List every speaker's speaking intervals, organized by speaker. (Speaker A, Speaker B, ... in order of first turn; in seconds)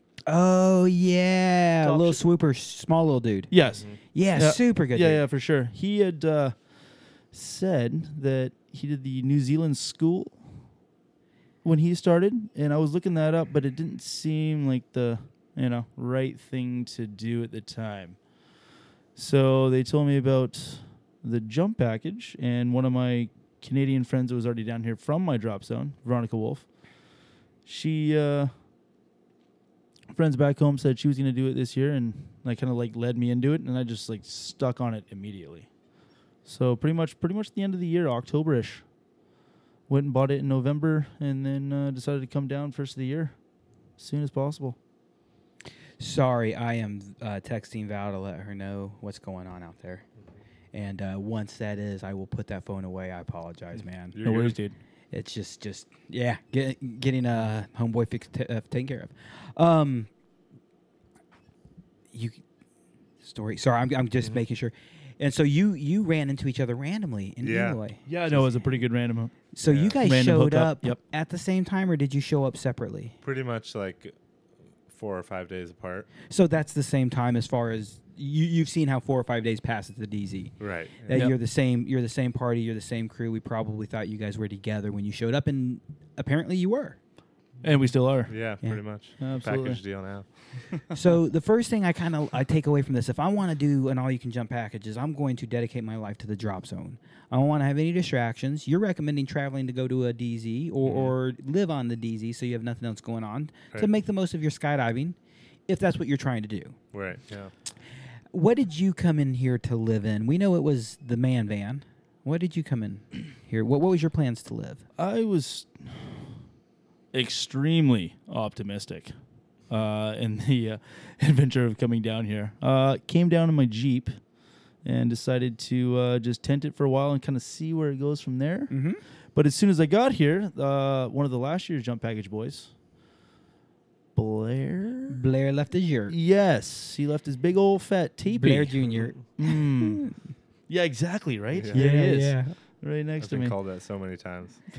Speaker A: 0.2-5.2, 46.0-50.0, 50.7-54.2, 55.1-60.1, 62.1-62.4, 63.2-68.0, 69.5-73.2, 76.2-87.0, 90.9-105.2, 105.7-106.8, 108.3-114.8, 128.7-129.0, 135.1-136.2, 138.3-140.1, 141.7-142.5
Speaker B: 1.8-2.2, 3.5-10.7, 11.6-18.2, 19.1-26.7, 27.6-28.5, 30.1-35.7, 36.4-38.9, 39.9-44.8, 54.2-54.8, 68.1-69.3, 70.0-71.0, 87.6-88.3, 89.2-89.8, 115.0-116.3, 117.1-119.1, 119.7-124.3, 124.8-132.8, 134.2-135.2, 136.1-138.8, 139.4-140.1, 140.7-143.6
Speaker C: 54.1-54.5, 67.4-67.8, 69.6-70.0, 73.2-74.1, 74.9-76.1, 80.6-81.2, 88.3-90.7, 100.8-101.1, 106.9-107.5, 141.5-141.8, 143.2-144.6